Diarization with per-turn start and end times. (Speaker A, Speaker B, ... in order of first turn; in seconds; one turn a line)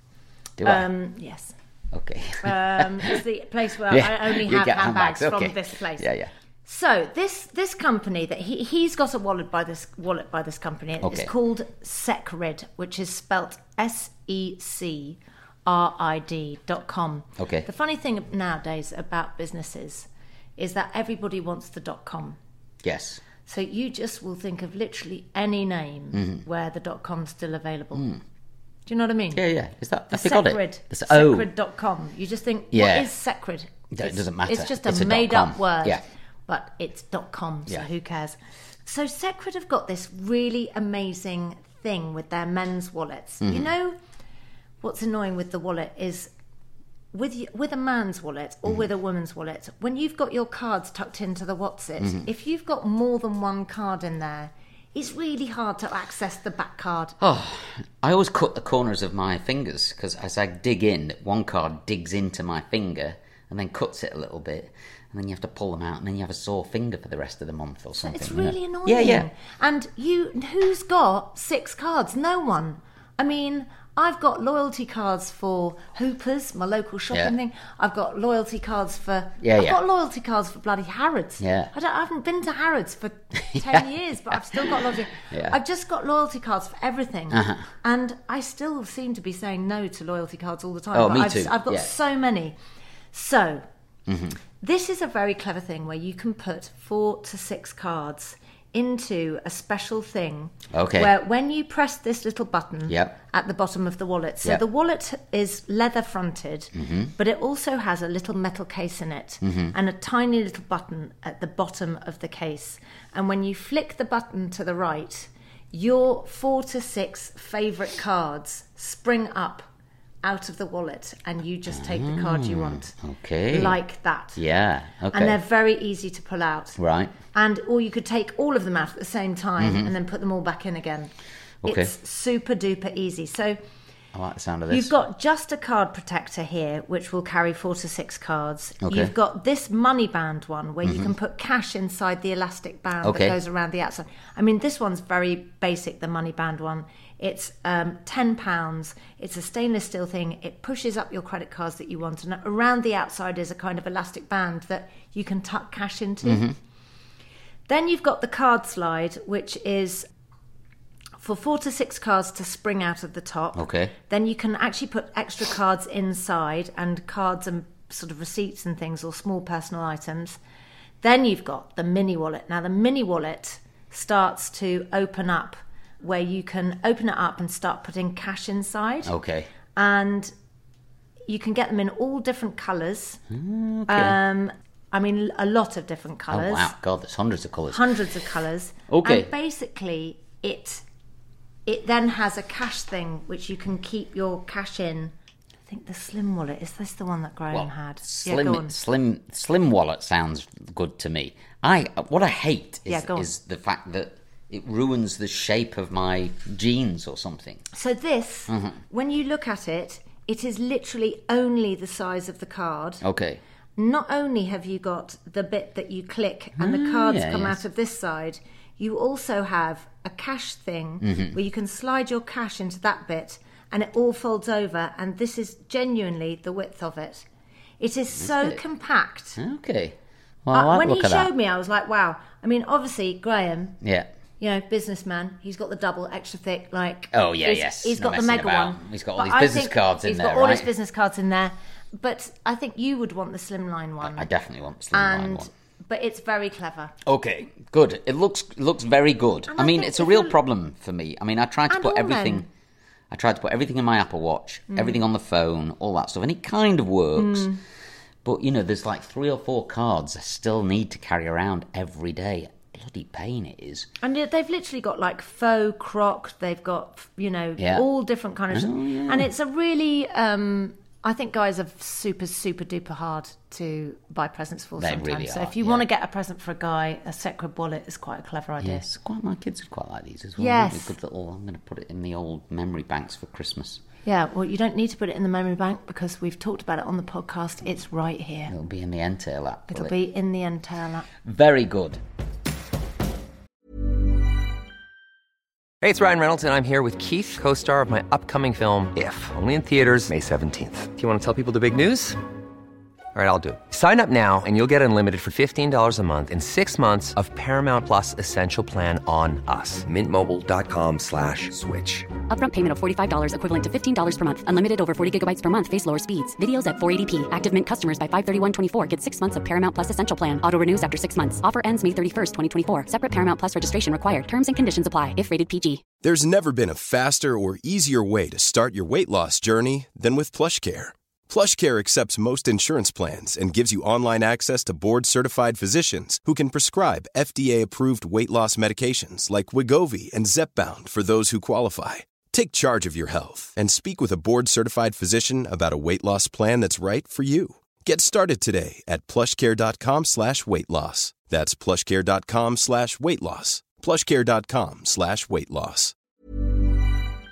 Speaker A: 0.6-0.9
Speaker B: 0.6-1.5
Speaker A: 1.9-3.2
Speaker B: 2.4-6.1
Speaker A: 3.9-6.3
Speaker B: 6.7-22.4
Speaker A: 11.0-11.3
Speaker A: 17.4-17.7
Speaker A: 22.8-23.2
Speaker B: 23.4-28.1
Speaker A: 26.1-26.4
Speaker A: 27.9-28.2
Speaker B: 28.9-29.4
Speaker A: 29.3-31.5
Speaker B: 30.1-44.0
Speaker A: 32.7-33.1
Speaker A: 33.9-36.0
Speaker A: 43.4-43.7
Speaker B: 44.8-46.3
Speaker B: 47.1-57.2
Speaker A: 57.2-69.3
Speaker B: 68.0-92.6
Speaker A: 79.4-79.8
Speaker A: 81.4-81.7
Speaker A: 83.5-85.6
Speaker A: 87.3-87.7
Speaker A: 90.9-91.9
Speaker B: 93.1-93.7
Speaker A: 94.1-94.4
Speaker B: 94.6-119.7
Speaker A: 100.7-101.1
Speaker A: 102.9-103.2
Speaker A: 106.8-107.1
Speaker A: 109.4-109.7
Speaker B: 120.2-122.9
Speaker A: 121.7-123.8
Speaker B: 123.5-124.4
Speaker A: 124.4-125.4
Speaker B: 125.1-126.8
Speaker A: 126.8-127.2
Speaker B: 127.3-131.1
Speaker A: 129.6-129.9
Speaker A: 131.6-131.9
Speaker B: 131.7-133.6
Speaker A: 134.1-134.9
Speaker B: 134.7-156.4
Speaker A: 138.8-139.1
Speaker A: 140.8-141.1
Speaker A: 143.0-143.4
Speaker A: 156.2-156.6
Speaker B: 157.7-160.1
Speaker B: 161.2-170.4
Speaker A: 163.6-163.9
Speaker B: 171.0-179.1
Speaker A: 179.0-179.5
Speaker B: 179.8-180.3
Speaker B: 181.3-183.2
Speaker A: 183.3-184.2
Speaker B: 183.9-186.7
Speaker A: 186.3-188.0
Speaker B: 187.7-190.8
Speaker A: 188.9-189.3
Speaker B: 191.7-195.1
Speaker B: 195.7-198.8
Speaker A: 197.5-207.6
Speaker B: 202.9-203.3
Speaker B: 207.7-213.0
Speaker A: 208.5-208.8
Speaker A: 213.0-213.4
Speaker B: 213.8-227.3
Speaker A: 216.6-217.6
Speaker A: 221.0-221.4
Speaker B: 227.8-229.4
Speaker A: 228.2-228.6
Speaker A: 229.4-231.3
Speaker B: 230.5-233.8
Speaker A: 233.8-234.1
Speaker B: 234.4-244.3
Speaker A: 237.1-240.7
Speaker A: 244.0-245.5
Speaker B: 244.9-246.9
Speaker A: 247.1-252.5
Speaker B: 249.5-250.4
Speaker B: 251.7-252.5
Speaker A: 253.1-257.5
Speaker B: 254.7-255.0
Speaker B: 257.2-257.6
Speaker A: 258.2-263.9
Speaker B: 264.0-278.9
Speaker A: 267.6-267.9
Speaker A: 268.5-269.3
Speaker A: 274.8-275.9
Speaker A: 278.6-283.8
Speaker B: 280.4-280.9
Speaker B: 284.1-288.5
Speaker A: 288.5-289.9
Speaker B: 289.7-291.1
Speaker A: 291.2-292.0
Speaker C: 295.8-302.2
Speaker C: 303.1-312.1
Speaker D: 312.3-325.9
Speaker E: 326.0-355.9